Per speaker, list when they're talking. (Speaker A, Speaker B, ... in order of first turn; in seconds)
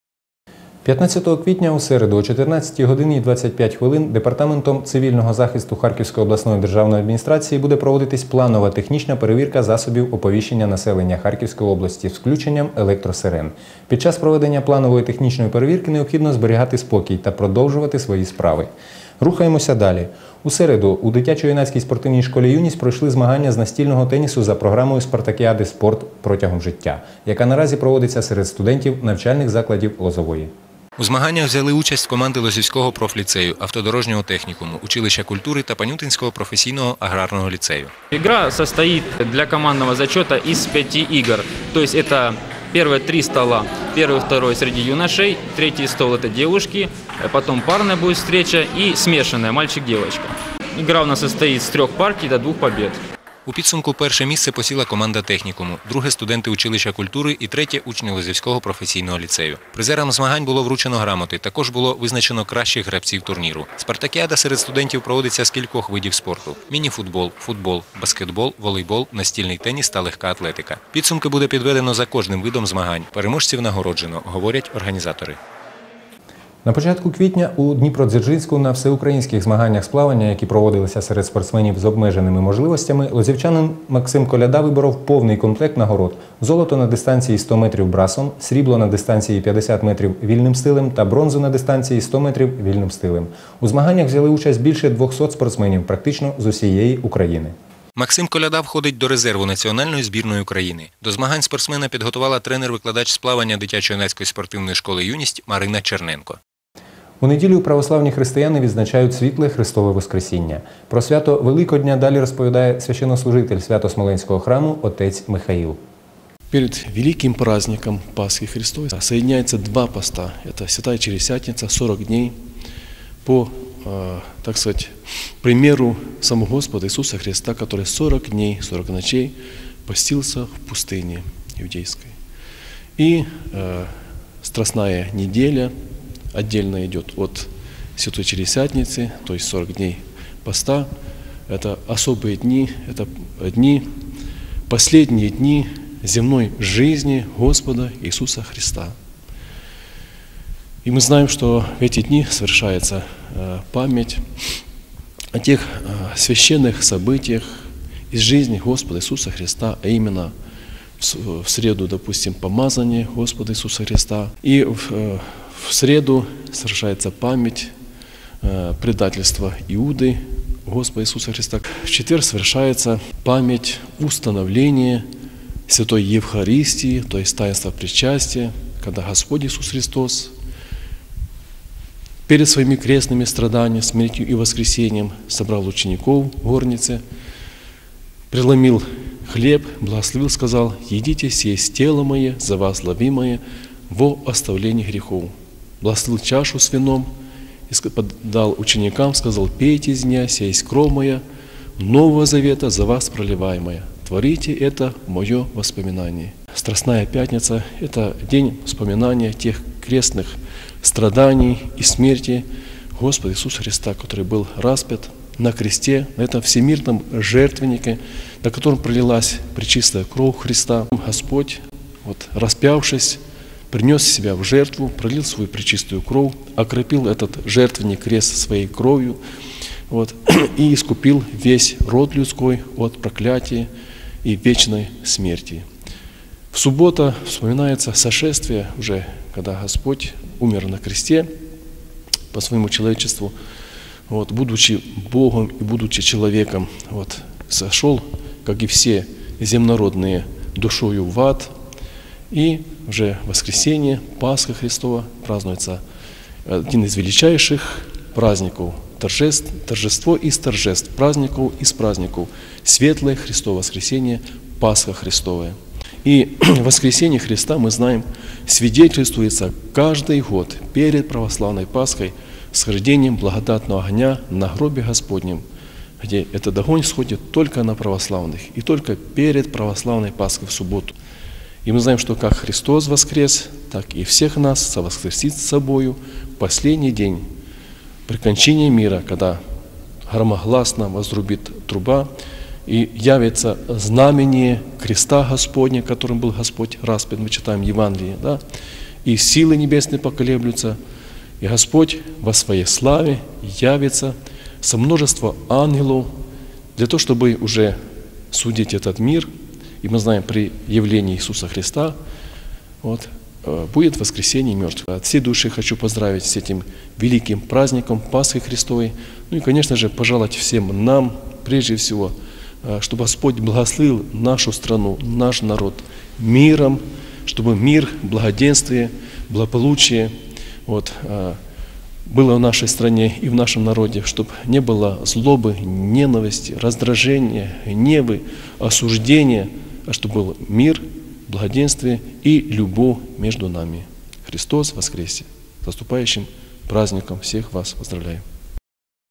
Speaker A: 0.8-30.5, 31.0-32.2, 32.8-33.1, 34.0-37.7, 53.5-55.5, 56.1-58.9, 59.7-61.4, 64.7-65.1, 65.8-66.7, 68.1-75.2, 76.6-97.5, 98.4-98.7, 107.2-115.8
Speaker B: 31.0-36.1, 37.5-37.9, 54.3-60.3, 61.3-73.4, 74.1-75.3, 98.0-106.3
Speaker C: 38.1-53.0
Speaker D: 116.5-122.4, 123.2-132.2, 133.0-135.7, 136.3-140.9, 141.5-143.9, 144.7-148.9, 150.8-154.6, 155.3-160.3, 161.0-167.7, 168.4-175.1, 175.7-180.3, 182.3-187.0, 188.3-197.1, 197.7-201.2, 201.8-223.2, 223.7-229.2, 229.9-233.7, 234.2-235.7, 236.5-241.3, 242.3-243.3, 244.1-251.5, 252.3-255.8, 256.4-275.4, 276.0-280.9, 281.6-287.3, 288.1-289.4, 290.1-292.1, 292.6-298.4, 299.0-300.8, 301.4-306.1, 306.7-307.8, 308.3-312.0, 312.8-330.1, 330.6-331.4, 332.0-348.2